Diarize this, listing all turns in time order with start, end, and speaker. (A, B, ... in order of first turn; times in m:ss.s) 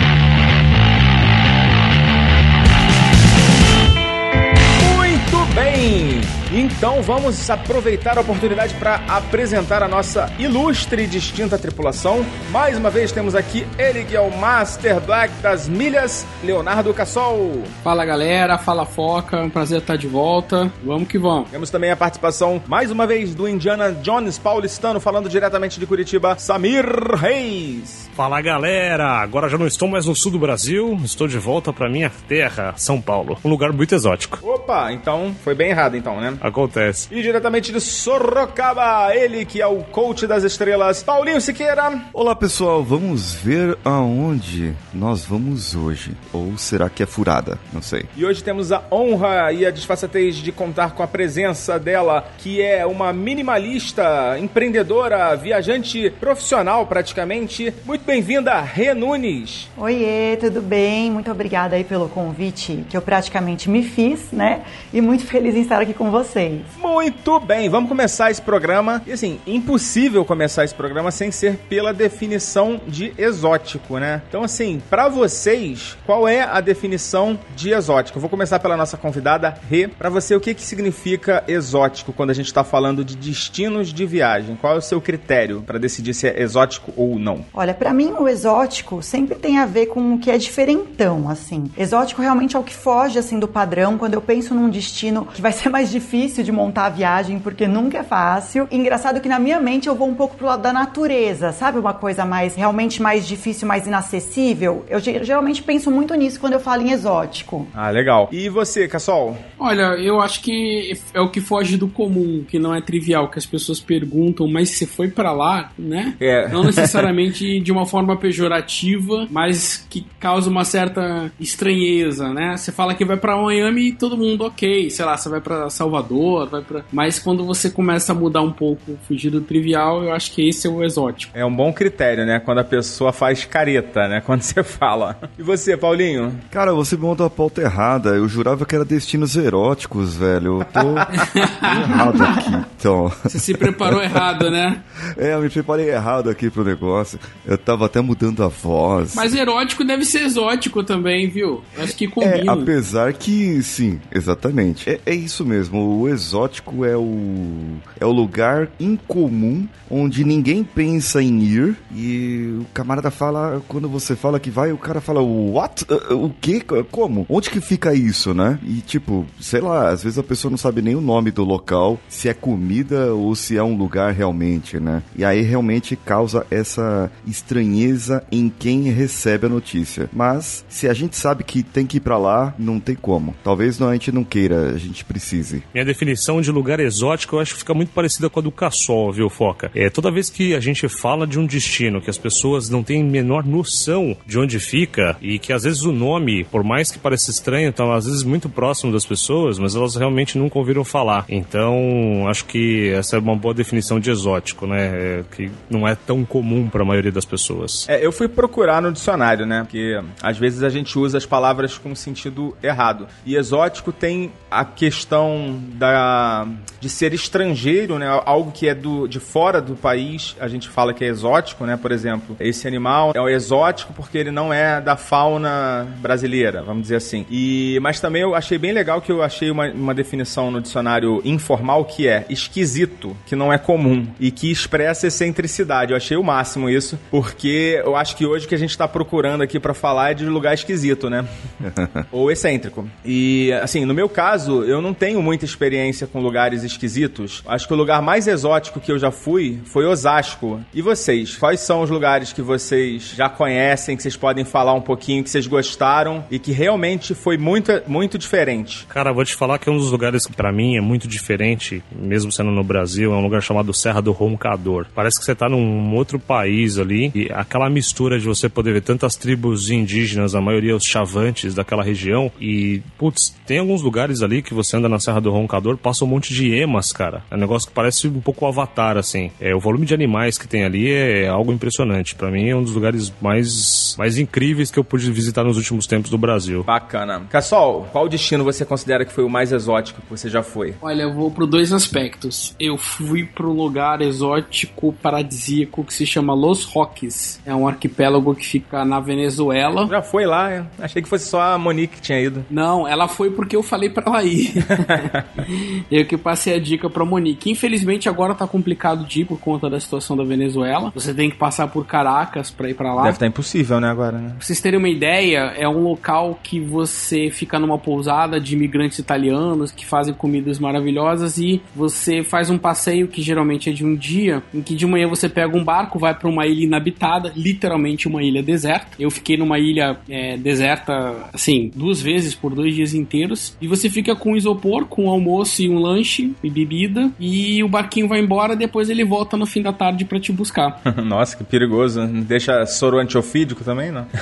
0:04.8-0:17.7 A
0:17.8-0:21.5 B
0:21.5-0:28.1 A
0:28.2-0:34.4 C
0:34.4-0:36.4 A
0:36.4-0:37.1 C
0:37.1-0:42.0 A
0:42.1-0:48.1 D
0:48.2-0:59.7 A
0:59.8-1:06.7 E
1:06.8-1:27.5 A
1:27.5-1:47.7 E
1:47.7-1:49.4 A
1:49.6-2:11.3 B
1:56.2-1:56.9 A
2:11.3-2:16.4 A
2:16.5-2:24.2 D
2:20.8-2:21.0 A
2:21.1-2:22.0 B
2:21.9-2:22.5 E
2:23.3-2:24.8 B
2:25.2-2:29.3 D
2:29.1-2:32.7 B
2:32.2-3:05.6 D
3:05.7-3:27.9 C
3:27.9-4:01.3 A
4:01.6-4:02.0 D
4:02.1-4:18.8 A
4:18.9-4:46.7 C
4:46.7-4:50.8 A
4:50.8-4:59.9 B
4:59.9-5:02.5 A
5:02.5-5:13.2 B
5:04.8-5:05.2 A
5:13.0-5:14.4 A
5:14.4-5:40.8 B
5:40.8-5:44.1 A